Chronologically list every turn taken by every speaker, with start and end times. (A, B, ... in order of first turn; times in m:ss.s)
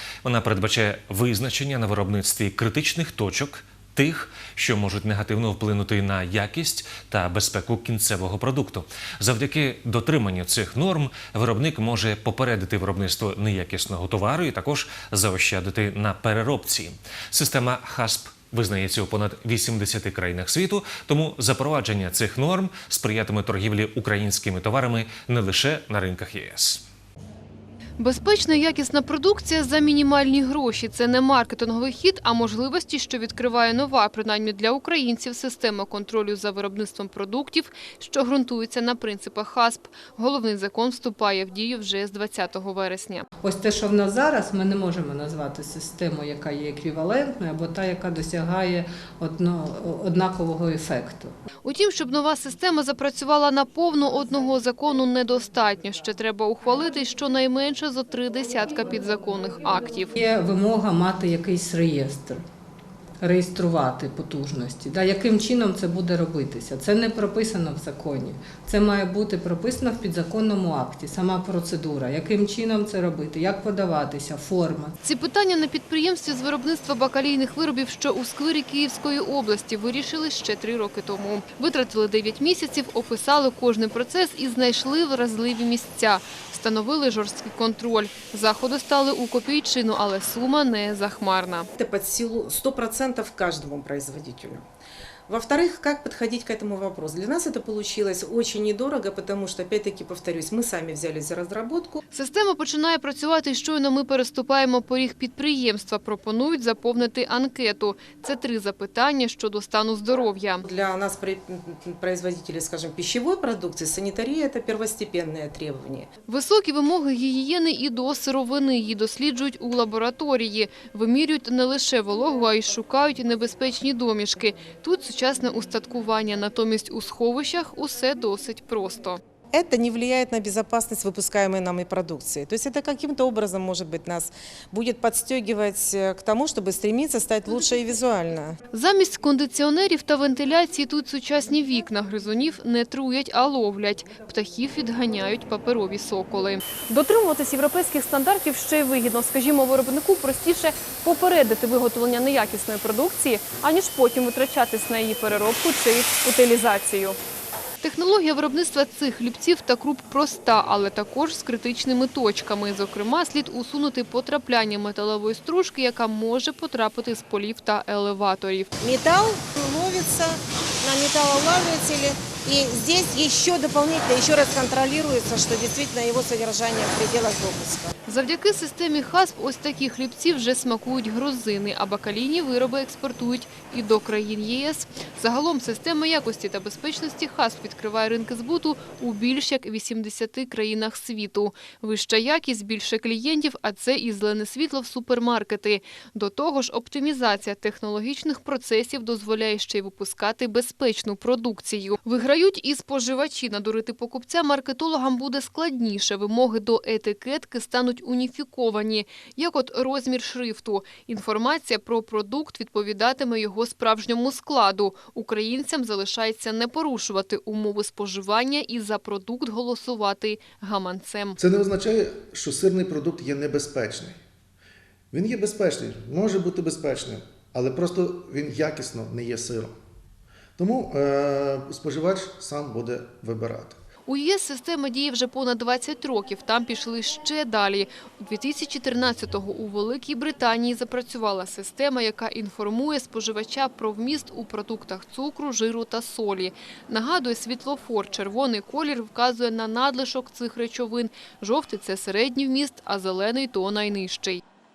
0:00.2-0:26.8 A
0:28.0-0:43.3 B
0:43.4-0:51.3 C
0:51.6-1:00.1 B
1:00.2-1:02.4 C
1:03.2-1:15.0 C
1:15.0-1:31.7 B
1:31.8-1:34.6 D
1:35.3-1:42.0 D
1:42.1-1:50.6 B
1:50.7-1:56.1 D
1:56.3-2:09.2 B
2:09.5-2:18.6 D
2:18.7-2:26.8 B
2:26.9-2:37.2 E
2:37.8-2:48.7 B
2:48.8-2:57.9 F
2:58.1-3:41.4 B
3:41.4-3:44.2 G
3:45.1-3:49.7 G
3:50.6-3:53.8 G
3:54.1-4:14.4 B